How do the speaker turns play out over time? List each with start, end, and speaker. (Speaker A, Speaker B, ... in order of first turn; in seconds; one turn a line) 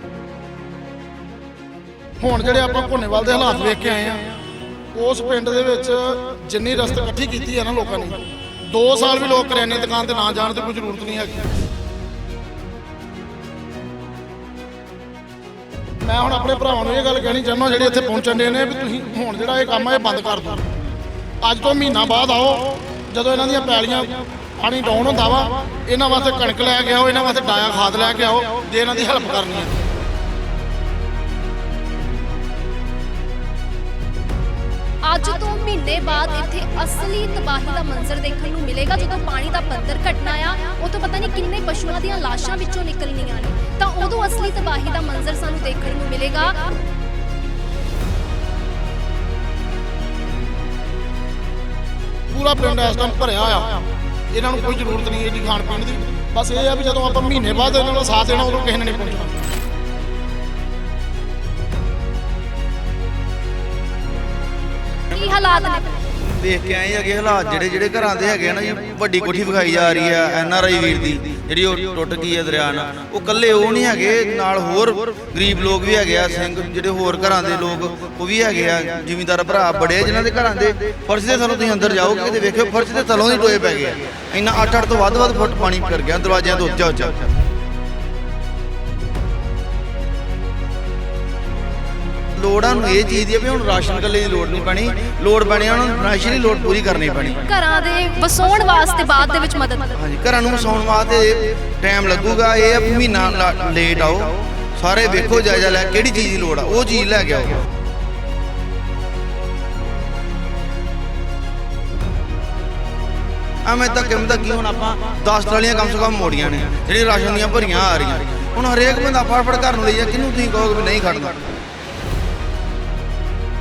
Speaker A: 2.2-4.4
Speaker A: 4.9-11.5
Speaker A: 16.0-20.7
Speaker A: 21.4-29.8
Speaker B: 35.0-46.7
Speaker A: 52.3-53.8
Speaker A: 54.3-59.4
Speaker B: 65.1-66.0
Speaker C: 66.2-87.3
Speaker C: 92.4-97.5
Speaker B: 97.4-100.0
Speaker C: 100.0-107.6
Speaker C: 113.7-121.5